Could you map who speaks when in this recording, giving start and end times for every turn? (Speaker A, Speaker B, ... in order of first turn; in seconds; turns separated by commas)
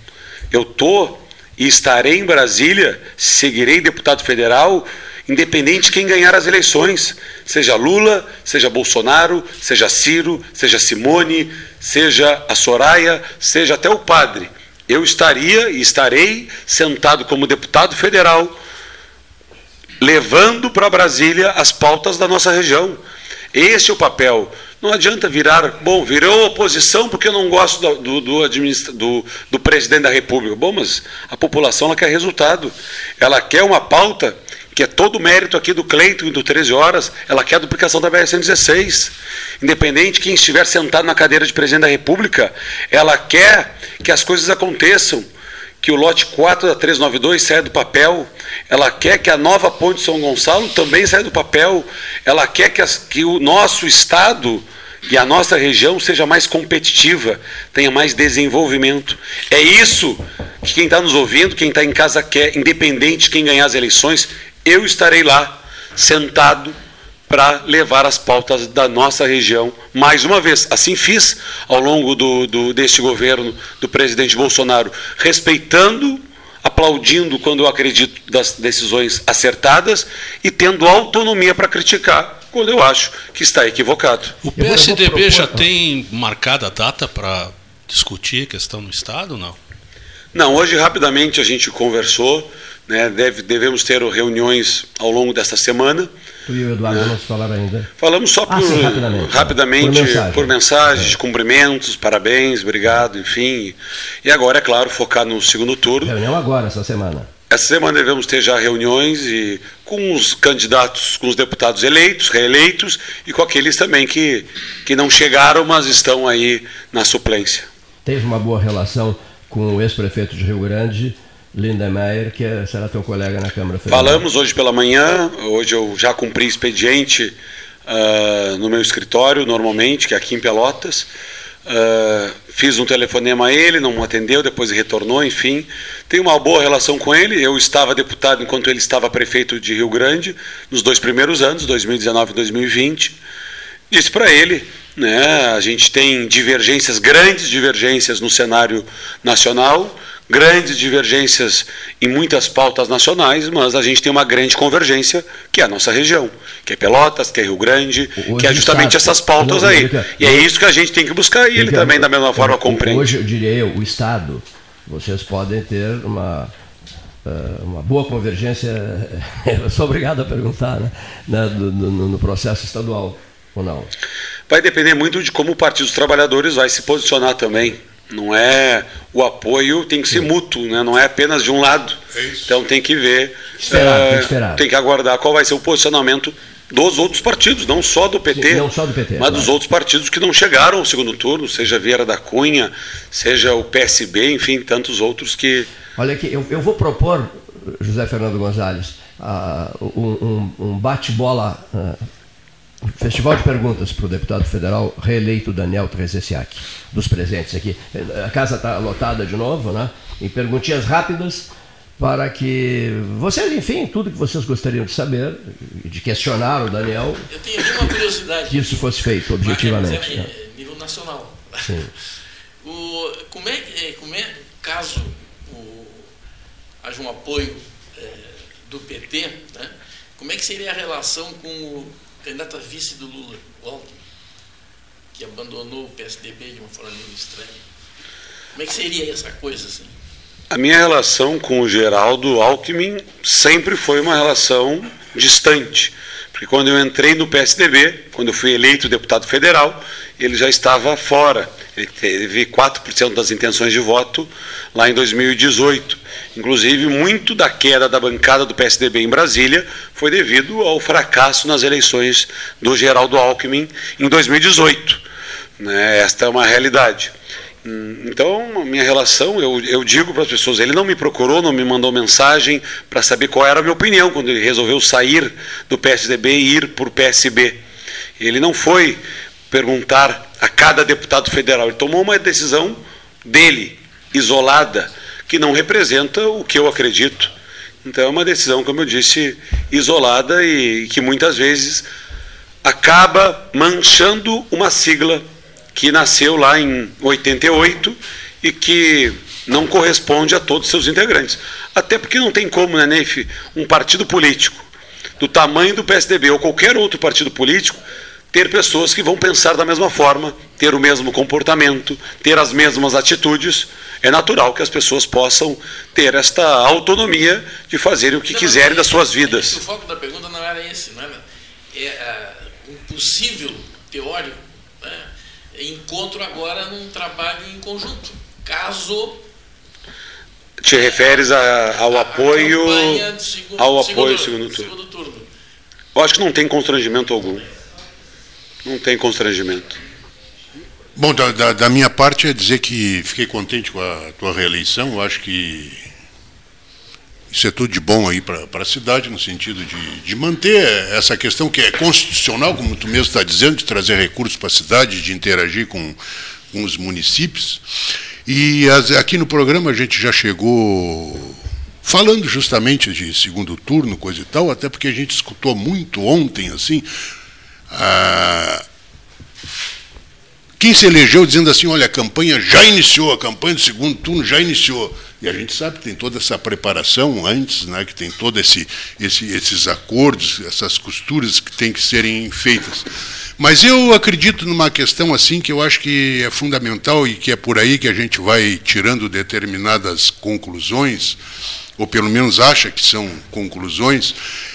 Speaker A: 0.5-18.6, Speaker A: 20.0-23.0, Speaker A: 23.5-45.2, Speaker A: 45.8-66.8, Speaker A: 67.3-84.3, Speaker B: 84.4-89.5, Speaker C: 84.6-85.7, Speaker A: 90.3-96.1, Speaker C: 96.5-97.9, Speaker A: 96.9-97.1, Speaker A: 98.0-106.1, Speaker C: 98.5-101.1, Speaker C: 106.0-107.3, Speaker A: 107.5-117.7, Speaker C: 118.0-124.2, Speaker A: 123.9-127.3, Speaker A: 127.8-131.1, Speaker A: 131.7-143.1, Speaker A: 143.9-163.2, Speaker C: 158.2-160.4, Speaker C: 161.6-166.5, Speaker C: 167.2-173.9, Speaker A: 174.5-195.7, Speaker C: 183.6-184.6, Speaker C: 188.3-189.5, Speaker C: 195.9-202.0, Speaker C: 202.8-220.3, Speaker D: 217.3-221.9, Speaker C: 221.6-221.9, Speaker D: 222.6-226.1, Speaker D: 226.8-234.0, Speaker D: 235.1-237.6, Speaker D: 238.5-239.9, Speaker A: 240.5-265.0, Speaker A: 265.6-267.1, Speaker A: 267.6-277.6, Speaker A: 278.2-287.3, Speaker A: 287.8-291.9, Speaker A: 292.6-295.2, Speaker A: 295.7-304.6, Speaker A: 305.2-319.6, Speaker D: 318.2-321.2, Speaker D: 321.7-329.2, Speaker A: 330.6-333.1, Speaker D: 330.7-335.2, Speaker A: 333.6-334.7, Speaker A: 335.9-337.4, Speaker A: 338.6-339.8, Speaker E: 340.9-345.8, Speaker E: 347.3-356.0, Speaker E: 356.5-357.6, Speaker E: 358.2-366.9, Speaker E: 367.7-368.6, Speaker E: 370.6-391.2, Speaker E: 391.8-394.2